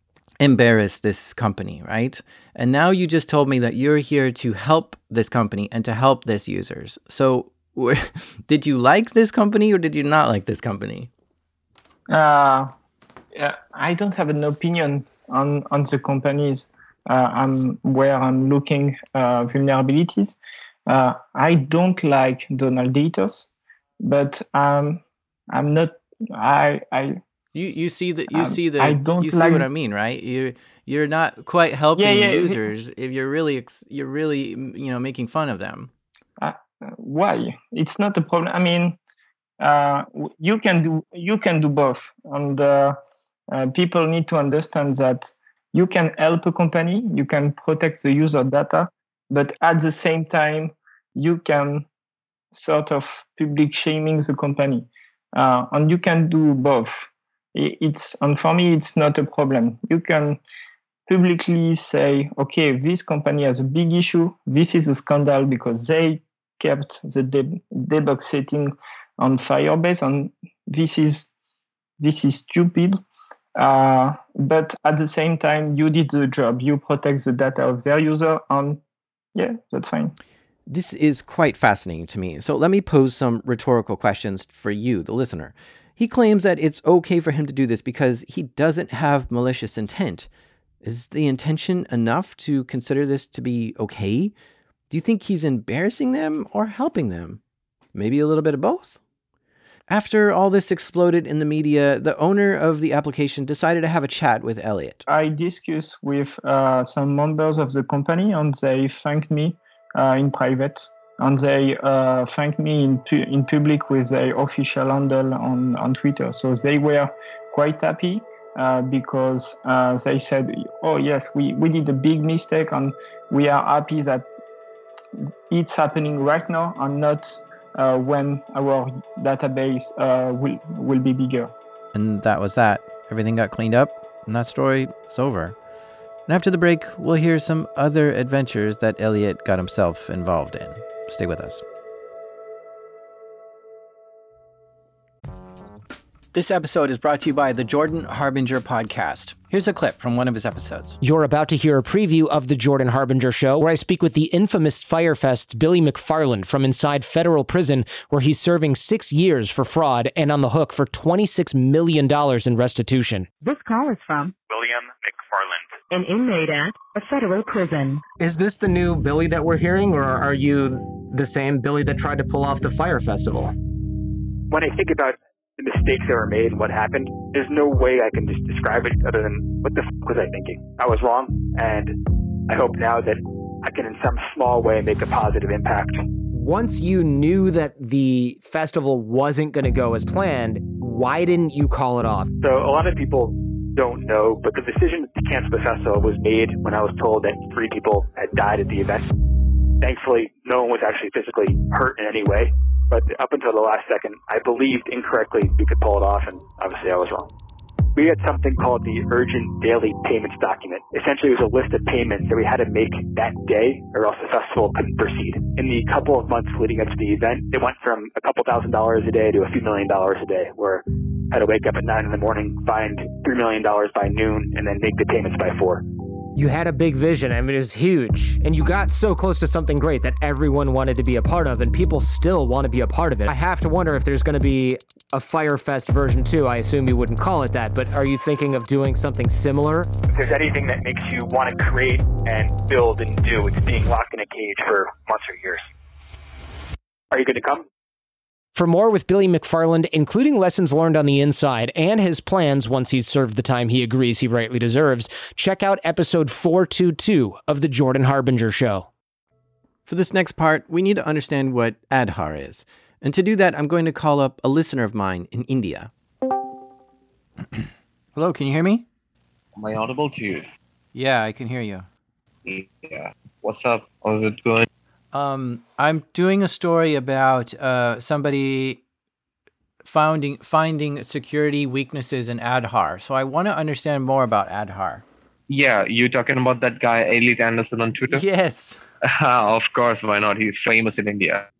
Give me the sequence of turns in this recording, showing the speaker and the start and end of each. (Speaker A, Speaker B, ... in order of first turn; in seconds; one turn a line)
Speaker A: 0.4-11.1
Speaker B: 12.1-12.7
Speaker B: 13.3-27.2
Speaker A: 27.5-35.9
Speaker B: 28.3-29.9
Speaker B: 32.0-32.7
Speaker B: 36.4-39.0
Speaker B: 39.6-43.0
Speaker B: 43.5-51.9
Speaker B: 52.5-60.4
Speaker B: 61.1-71.3
Speaker B: 72.0-73.0
Speaker B: 73.6-78.8
Speaker B: 79.3-80.1
Speaker A: 80.7-90.3
Speaker A: 90.8-94.3
Speaker A: 94.9-97.4
Speaker A: 97.9-99.0
Speaker A: 99.9-105.0
Speaker B: 105.1-124.3
Speaker B: 125.5-131.5
Speaker A: 131.9-135.6
Speaker A: 136.3-141.6
Speaker A: 146.3-151.0
Speaker C: 151.0-163.3
Speaker D: 163.4-164.3
Speaker E: 164.5-165.8
Speaker D: 165.9-168.0
Speaker C: 168.2-173.5
Speaker E: 174.5-181.9
Speaker E: 182.5-186.0
Speaker C: 186.3-192.3
Speaker E: 192.4-199.1
Speaker E: 199.8-207.3
Speaker E: 208.0-225.8
Speaker C: 226.4-239.9
Speaker E: 240.1-245.6
Speaker E: 247.1-247.6
Speaker C: 248.6-258.9
Speaker A: 259.9-265.9
Speaker A: 267.5-268.9
Speaker F: 269.6-270.4
Speaker A: 270.9-271.9
Speaker F: 272.5-274.7
Speaker A: 275.1-278.8
Speaker A: 279.8-285.1
Speaker F: 285.5-288.2
Speaker A: 288.1-288.8
Speaker F: 289.1-291.5